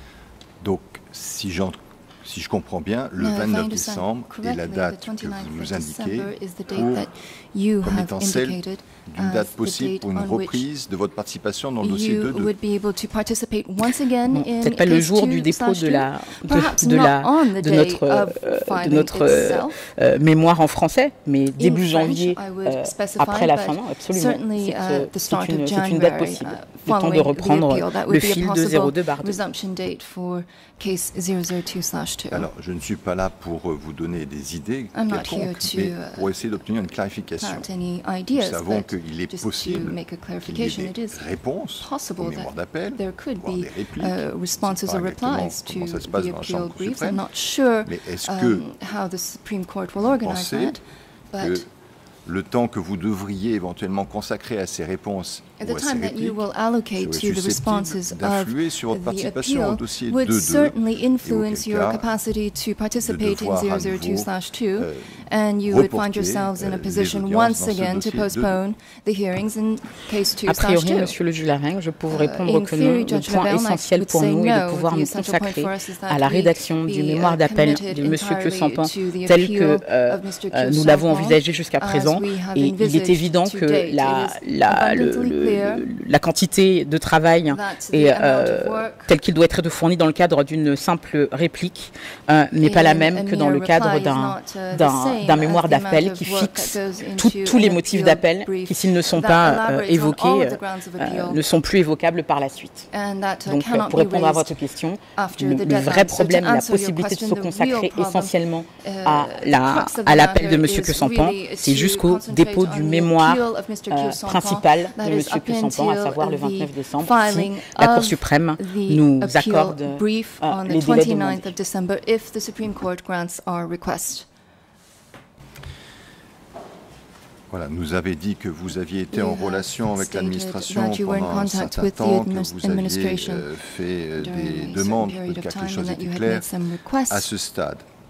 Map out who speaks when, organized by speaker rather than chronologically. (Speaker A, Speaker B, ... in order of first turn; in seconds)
Speaker A: 0.6-7.1, 7.8-12.5, 32.3-37.7, 38.3-47.3, 47.8-48.6, 50.2-50.8, 51.4-51.7, 52.2-56.5, 57.0-62.1, 63.0-68.6, 127.5-136.5, 137.1-137.9
Speaker B: 3.2-10.7, 11.8-19.8, 21.6-32.5, 34.9-36.3, 37.4-50.8, 51.3-51.7, 55.6-71.2, 72.1-85.9, 87.5-89.2, 92.6-101.4, 102.9-104.6, 105.2-124.3, 129.1-133.5, 134.2-137.3
Speaker C: 14.3-29.4, 70.5-102.9, 103.5-121.5